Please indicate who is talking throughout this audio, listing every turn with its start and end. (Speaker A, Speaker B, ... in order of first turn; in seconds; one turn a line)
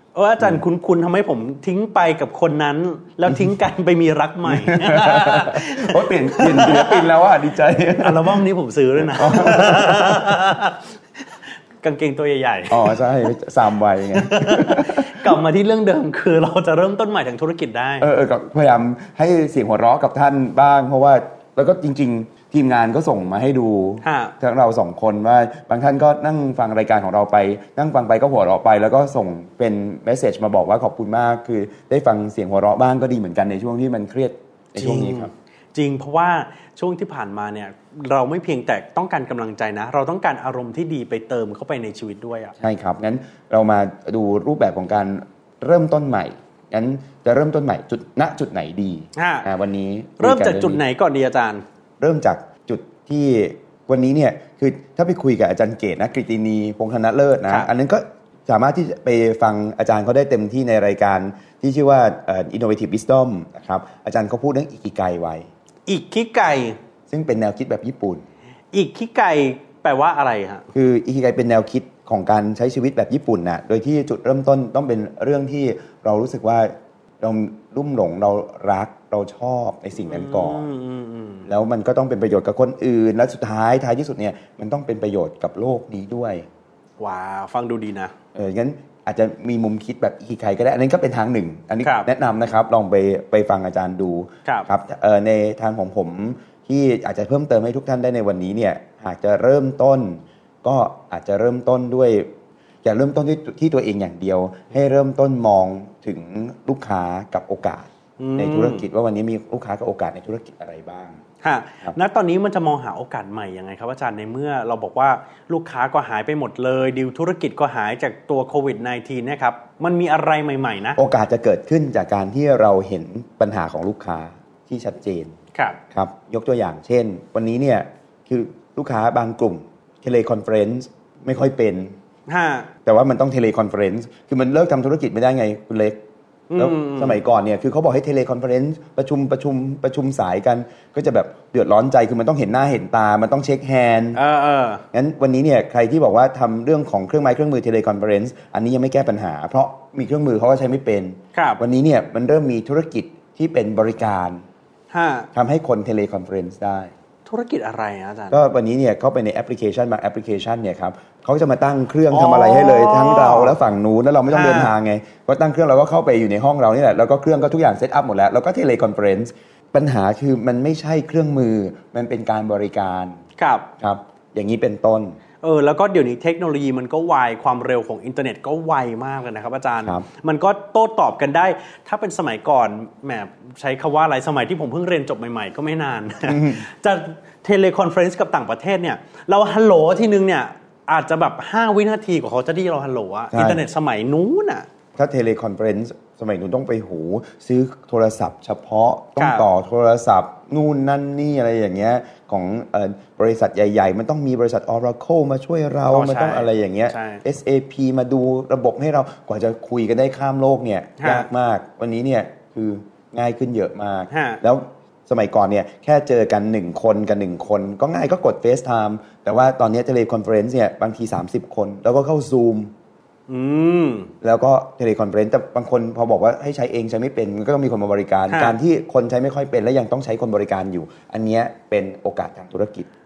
Speaker A: 0.1-7.0
Speaker B: 3.3-3.5
Speaker B: 4.5-8.4
Speaker A: 8.0-10.9
Speaker B: 9.0-10.3
Speaker A: 11.8-13.3
Speaker B: 12.7-15.4
Speaker A: 14.1-18.1
Speaker B: 18.0-35.3
Speaker A: 24.0-24.3
Speaker A: 34.8-42.5
Speaker B: 42.6-50.8
Speaker A: 49.2-49.5
Speaker A: 50.2-51.6
Speaker B: 52.0-65.5
Speaker A: 65.9-66.8
Speaker B: 67.1-68.3
Speaker A: 68.7-70.7
Speaker B: 70.7-80.7
Speaker A: 80.0-81.5
Speaker B: 81.5-86.5
Speaker A: 87.0-88.1
Speaker B: 88.3-102.3
Speaker A: 91.8-92.1
Speaker B: 102.8-111.2
Speaker A: 108.2-108.8
Speaker A: 111.4-121.0
Speaker B: 121.0-125.4
Speaker B: 125.9-132.0
Speaker A: 132.3-132.7
Speaker B: 132.8-136.0
Speaker A: 136.5-137.2
Speaker B: 136.6-144.2
Speaker A: 144.2-144.8
Speaker B: 144.9-154.4
Speaker A: 151.3-151.6
Speaker A: 154.9-155.3
Speaker B: 155.3-156.9
Speaker A: 157.3-158.4
Speaker B: 158.3-173.2
Speaker A: 162.1-163.6
Speaker A: 164.3-164.7
Speaker A: 173.4-173.7
Speaker B: 173.8-175.2
Speaker A: 175.4-194.7
Speaker B: 186.3-186.6
Speaker B: 193.3-193.6
Speaker B: 195.0-222.7
Speaker A: 199.2-199.5
Speaker A: 205.9-207.2
Speaker A: 211.0-211.3
Speaker A: 214.1-214.4
Speaker A: 223.3-224.1
Speaker B: 224.2-232.9
Speaker A: 228.3-228.6